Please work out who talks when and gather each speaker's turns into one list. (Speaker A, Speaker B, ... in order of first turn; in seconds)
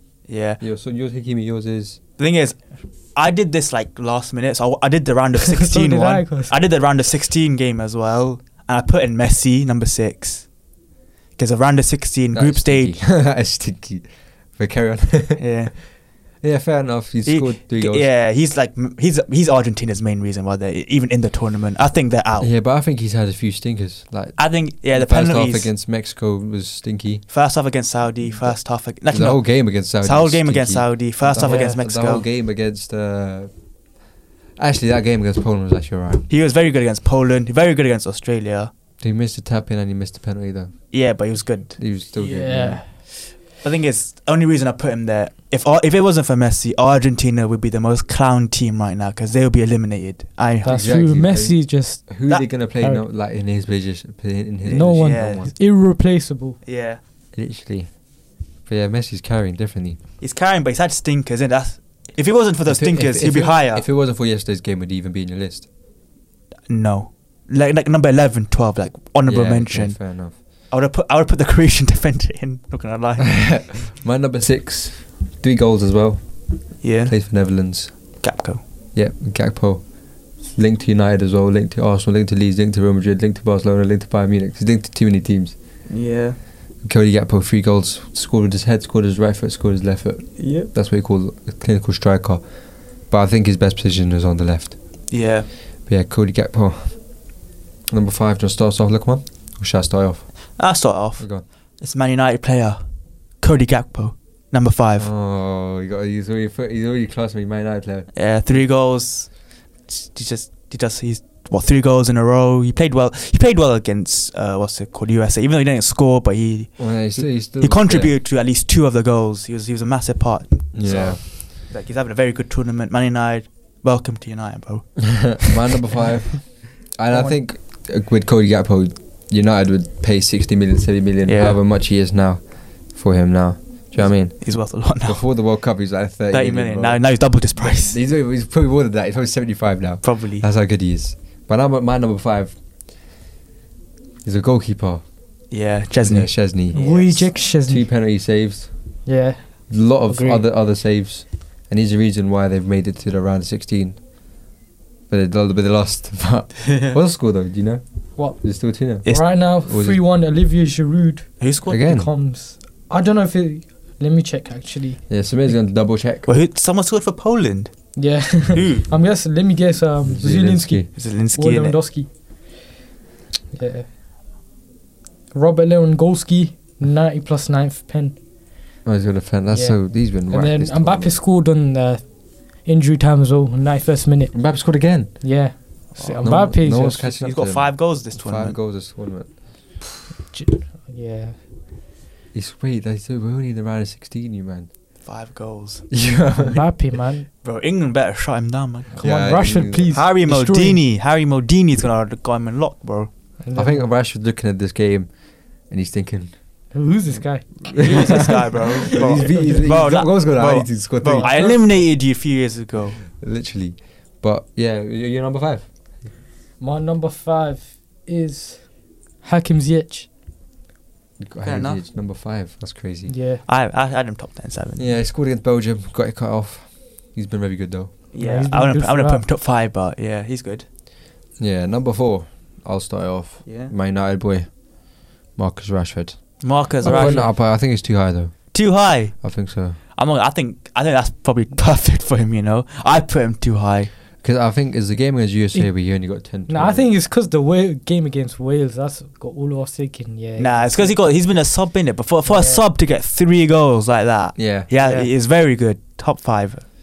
Speaker A: 0.3-0.6, 2.2-10.7, 11.4-13.0, 15.4-16.0, 17.2-22.5, 24.4-25.7, 27.3-32.3, 36.3-38.7, 40.9-51.0, 54.6-55.6, 56.6-57.0, 60.2-63.9, 66.7-73.8, 76.8-78.6, 85.9-86.4, 90.4-90.7, 95.1-95.5, 100.6-102.8, 103.4-105.1, 108.1-125.6, 131.3-131.6, 133.9-135.7, 136.3-138.0, 140.0-140.5, 145.5-147.3, 156.7-156.9, 161.4-161.8, 166.2-168.9, 171.0-171.9, 185.9-188.6, 195.0-196.0, 197.4-203.1, 207.7-213.1, 221.4-221.8, 223.4-224.9, 228.1-230.7, 233.4-233.7, 236.4-237.4, 238.5-243.9, 250.4-256.7
Speaker B: 0.6-2.0, 12.3-15.8, 16.4-18.1, 22.4-27.3, 28.2-33.5, 34.6-36.3, 39.0-41.1, 41.8-42.8, 50.7-55.5, 57.3-60.0, 62.7-65.7, 69.3-70.4, 73.4-78.2, 78.9-85.5, 86.8-95.1, 95.9-97.3, 97.9-100.6, 101.2-101.4, 105.0-108.6, 116.8-118.2, 120.7-121.5, 125.1-142.6, 144.2-145.1, 146.0-149.1, 149.7-154.1, 155.1-160.0, 161.7-162.1, 165.1-166.3, 170.0-170.9, 178.8-181.2, 184.3-185.4, 186.2-189.4, 192.3-194.7, 195.9-196.9, 199.0-200.0, 203.5-211.7, 213.0-216.1, 221.2-223.1, 224.8-228.0, 231.4-239.8, 244.2-246.9, 254.4-254.7
Speaker C: 5.6-6.5, 31.4-31.8, 42.3-42.9, 50.6-53.0, 54.7-56.6, 146.7-147.9, 149.1-150.4, 158.2-165.6, 168.0-172.5, 173.5-173.9, 175.3-178.2, 179.5-187.1, 190.3-191.4, 196.4-197.3, 199.0-200.8, 203.4-203.9, 206.7-209.6, 211.1-211.7, 216.6-220.1, 223.1-223.4, 228.2-229.2, 236.8-237.3, 245.5-251.0, 252.2-252.6, 254.8-255.1